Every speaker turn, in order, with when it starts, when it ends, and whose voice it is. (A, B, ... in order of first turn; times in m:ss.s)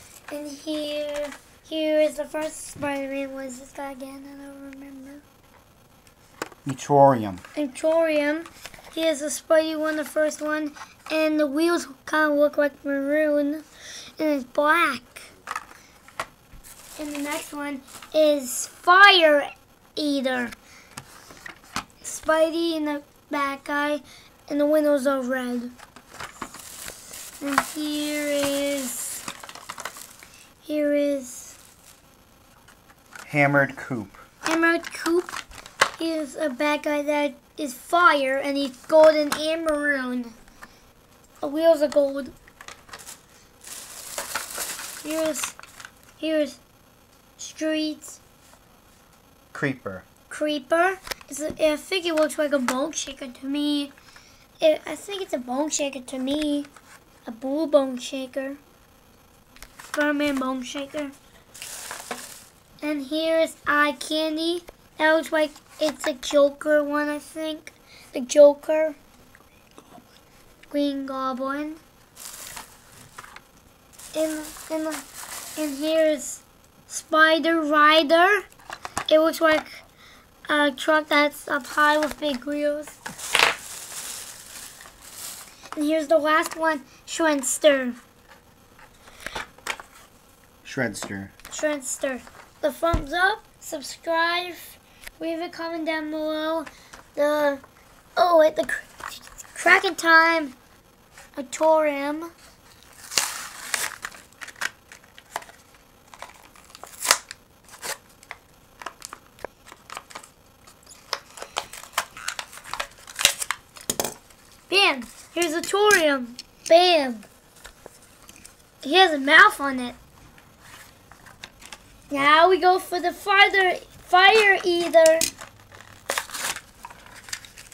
0:00.3-0:05.2 A
0:06.6-0:07.4 B
0:07.5-0:13.6 A
0:14.2-0:15.3 A
0:17.0-0:20.6 A
0:22.0-0:25.7 A
0:27.4-0:29.2 A
0:30.6-0:31.6 A
0:33.2-0:34.2 B
0:34.4-0:35.4 A
0:36.0-0:40.4 A
0:41.4-0:42.3 A
0:45.0-0:45.6 A
0:46.2-0:46.6 A
0:47.4-0:48.2 A
0:49.5-0:50.0 B
0:50.3-0:53.9 A
0:54.6-0:56.7 A
0:57.2-0:58.6 A
0:59.9-1:01.1 A
1:02.8-1:09.0 A
1:10.7-1:11.8 A
1:14.1-1:15.0 A
1:15.6-1:18.5 A
1:19.1-1:19.7 A
1:20.5-1:23.0 A
1:25.7-1:28.0 A
1:30.6-1:31.3 B
1:31.5-1:37.6 A
1:38.2-1:40.6 A
1:41.4-1:42.3 A
1:54.7-1:57.3 A
1:58.8-2:00.0 A
2:02.1-2:05.3 A